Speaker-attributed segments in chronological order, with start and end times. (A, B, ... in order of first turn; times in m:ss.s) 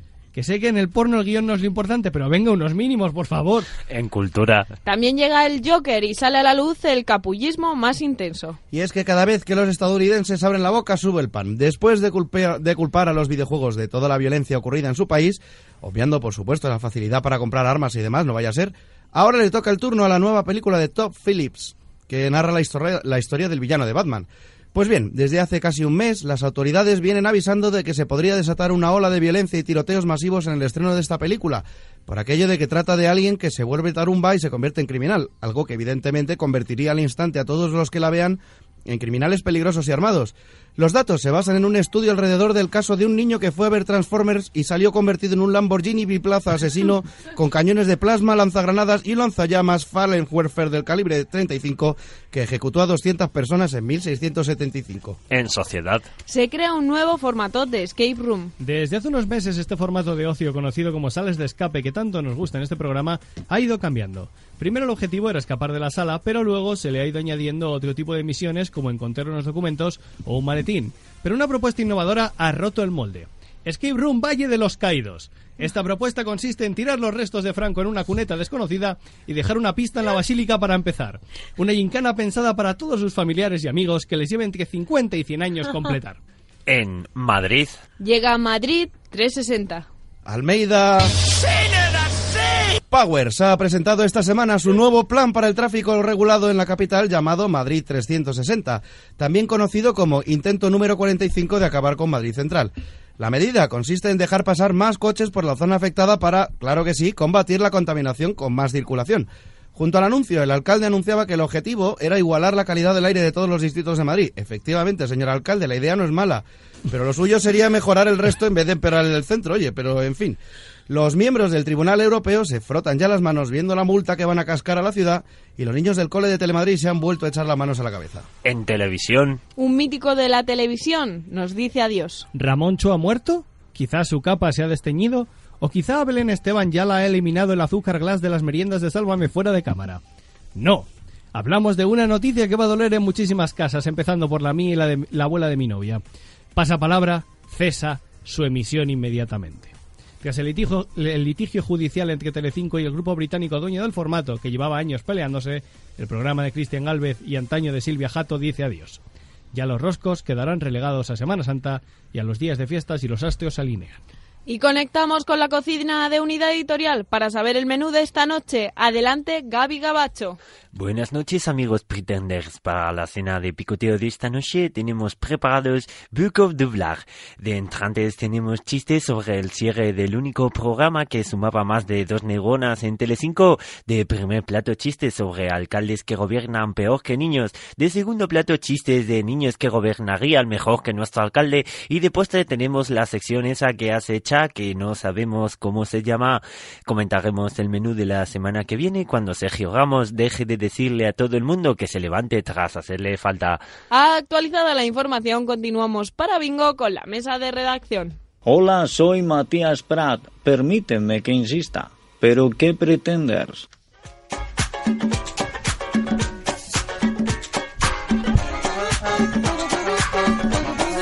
0:00.3-0:03.7 A
0:03.9-0:04.7 B
0:04.8-0:08.6 C
0:08.7-0:55.2 D
0:55.3-0:56.0 B
0:56.3-0:58.5 C
0:58.6-1:26.2 A
1:26.7-1:27.8 B
1:28.0-1:29.9 C
1:30.2-1:31.2 D
1:32.9-2:08.3 D
2:08.4-2:09.4 B
2:09.6-2:12.3 C
2:12.3-2:20.0 A
2:20.6-2:26.0 A
2:26.5-2:39.0 A
2:39.5-2:44.0 A
2:44.5-2:50.4 C
2:50.7-3:23.6 B
3:23.9-3:28.2 C
3:28.4-3:33.7 E